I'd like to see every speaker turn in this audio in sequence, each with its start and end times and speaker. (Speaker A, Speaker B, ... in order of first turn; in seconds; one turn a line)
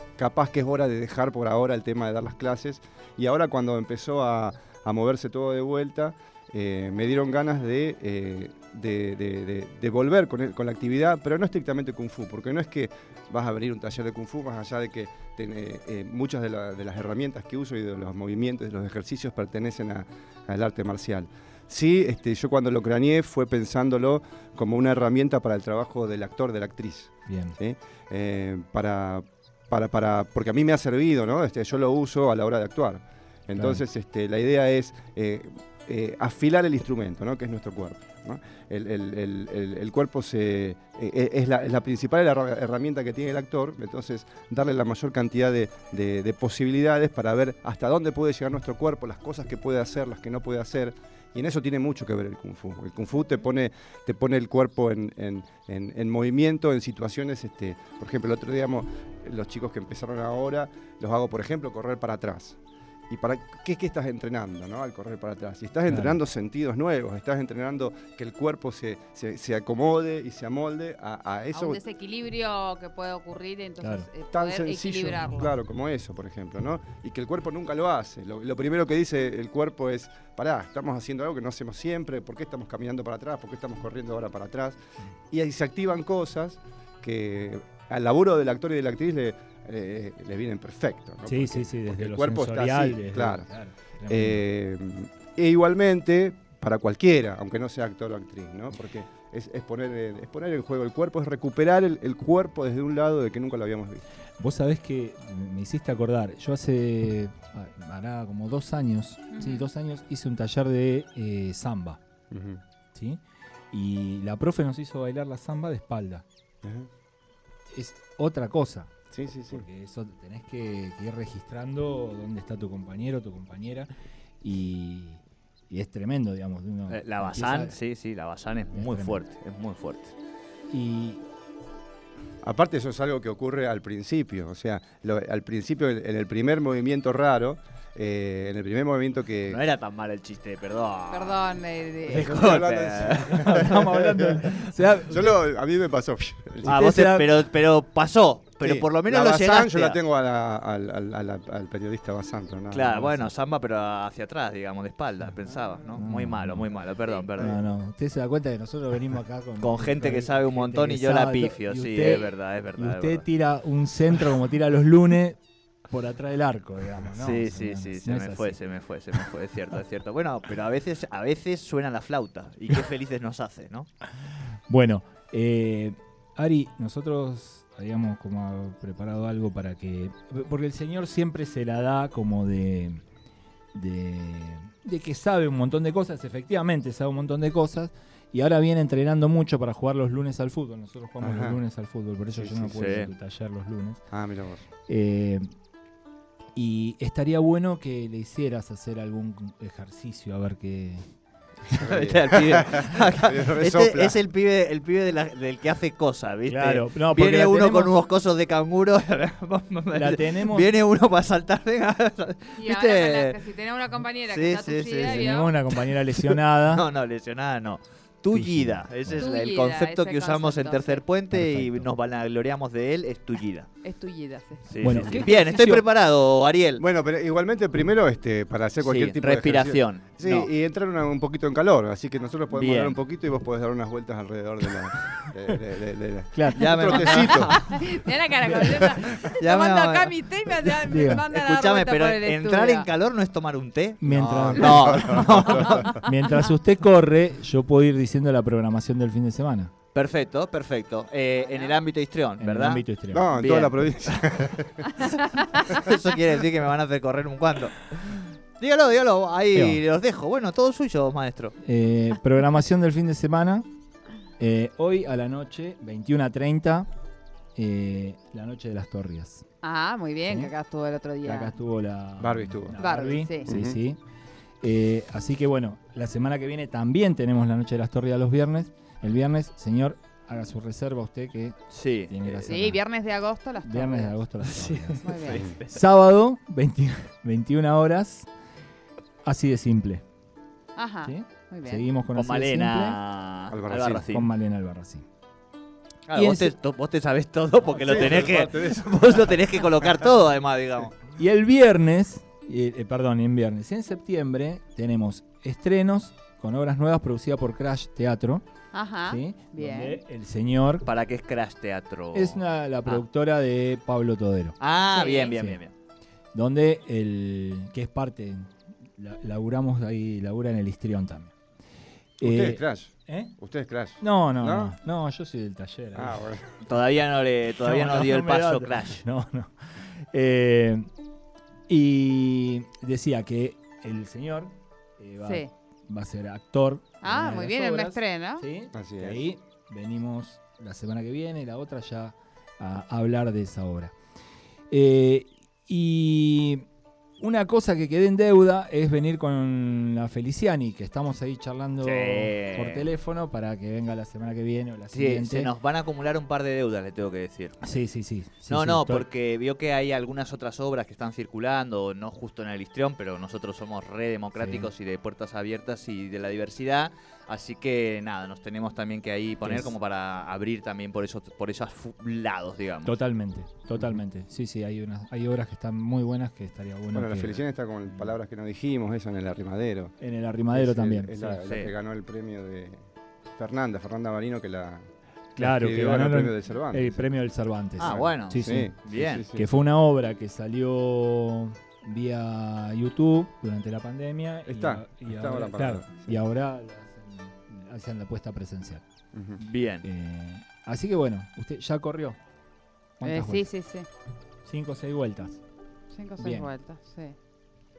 Speaker A: 0.2-62.6
Speaker B: 27.3-27.6
Speaker B: 33.5-33.8
Speaker A: 63.1-71.8
Speaker B: 65.9-66.2
Speaker C: 71.5-75.5
Speaker B: 73.8-74.1
Speaker A: 74.3-84.8
Speaker A: 85.3-93.5
Speaker B: 91.2-94.4
Speaker A: 94.1-104.0
Speaker B: 104.4-112.0
Speaker C: 109.3-109.7
Speaker A: 112.3-112.6
Speaker B: 112.9-113.2
Speaker B: 113.7-116.2
Speaker A: 116.6-116.9
Speaker B: 117.7-118.9
Speaker A: 119.1-119.6
Speaker B: 119.5-123.9
Speaker B: 124.4-127.8
Speaker D: 126.9-130.1
Speaker B: 128.7-129.2
Speaker B: 130.7-131.2
Speaker A: 132.4-139.6
Speaker D: 139.5-141.4
Speaker C: 141.1-142.3
Speaker D: 142.0-143.9
Speaker A: 142.1-146.8
Speaker B: 143.3-145.3
Speaker B: 146.6-147.3
Speaker D: 146.6-150.0
Speaker A: 148.6-153.1
Speaker D: 152.7-157.6
Speaker B: 152.9-153.3
Speaker B: 155.9-156.7
Speaker B: 157.4-165.4
Speaker D: 159.6-163.2
Speaker B: 165.9-168.6
Speaker D: 167.2-173.9
Speaker B: 174.7-183.0
Speaker B: 183.7-194.0
Speaker A: 191.2-191.6
Speaker A: 192.3-192.9
Speaker D: 192.7-193.1
Speaker A: 194.1-194.6
Speaker B: 194.9-195.5
Speaker B: 196.5-201.0
Speaker A: 201.7-204.2
Speaker D: 201.7-213.4
Speaker B: 206.5-207.9
Speaker B: 209.9-210.7
Speaker C: 212.6-215.5
Speaker D: 214.3-215.2
Speaker B: 215.0-216.8
Speaker D: 215.8-223.7
Speaker B: 218.3-219.3
Speaker C: 219.2-221.0
Speaker B: 221.3-221.9
Speaker C: 223.8-224.7
Speaker D: 224.7-226.8
Speaker B: 224.8-225.8
Speaker A: 226.8-237.6
Speaker D: 228.8-230.5
Speaker D: 232.5-233.0
Speaker B: 236.3-236.7
Speaker D: 236.5-237.8
Speaker C: 237.3-242.9
Speaker D: 239.1-246.0
Speaker B: 240.8-241.2
Speaker B: 244.0-245.2
Speaker A: 244.0-246.0
Speaker B: 246.0-249.7
Speaker D: 249.9-252.8
Speaker C: 251.4-251.8
Speaker B: 252.4-253.3
Speaker A: 253.1-254.9
Speaker D: 253.3-254.3
Speaker D: 255.0-261.6
Speaker B: 259.5-259.8
Speaker B: 261.6-263.7
Speaker B: 264.4-266.9
Speaker B: 267.5-269.4
Speaker C: 269.6-271.5
Speaker B: 271.2-274.0
Speaker A: 272.2-272.8
Speaker C: 272.8-273.5
Speaker A: 273.4-273.8
Speaker B: 274.6-282.8
Speaker D: 281.7-282.5
Speaker C: 282.5-284.1
Speaker B: 283.6-285.0
Speaker D: 284.4-285.8
Speaker C: 285.0-285.4
Speaker B: 285.7-288.3
Speaker B: 289.2-290.0
Speaker C: 290.8-291.8
Speaker B: 291.0-293.0
Speaker D: 292.1-294.3
Speaker A: 293.5-294.1
Speaker B: 294.1-295.0
Speaker D: 296.1-300.9
Speaker B: 296.1-296.5
Speaker A: 297.8-299.4
Speaker B: 301.1-308.4
Speaker C: 308.7-310.0
Speaker B: 309.1-310.9
Speaker D: 310.8-313.0
Speaker B: 312.1-314.6
Speaker D: 314.6-315.7
Speaker C: 314.9-315.3
Speaker B: 315.3-315.6
Speaker B: 316.3-321.3
Speaker B: 322.2-323.3
Speaker A: 322.2-324.8
Speaker B: 324.0-326.2
Speaker A: 325.9-326.5
Speaker D: 326.6-329.0
Speaker B: 327.6-330.9
Speaker B: 331.7-343.9
Speaker C: 335.2-335.5
Speaker C: 337.0-338.4
Speaker A: 338.7-339.2
Speaker B: 344.7-346.6
Speaker B: 347.2-355.5
Speaker D: 351.8-352.9
Speaker D: 354.9-357.6
Speaker B: 357.6-359.1
Speaker D: 358.5-372.9
Speaker B: 364.4-364.7
Speaker B: 369.4-369.7
Speaker B: 372.8-378.1
Speaker A: 376.9-379.9
Speaker B: 380.0-381.4
Speaker A: 380.5-387.1
Speaker D: 381.4-381.7
Speaker B: 385.4-388.7
Speaker D: 387.8-389.2
Speaker A: 387.8-389.5
Speaker B: 389.3-398.8
Speaker A: 394.5-396.2
Speaker A: 399.1-399.4
Speaker D: 399.4-399.9
Speaker B: 399.8-402.2
Speaker B: 403.0-403.5
Speaker C: 403.0-403.9
Speaker B: 404.4-405.4
Speaker C: 405.9-407.1
Speaker B: 406.2-406.5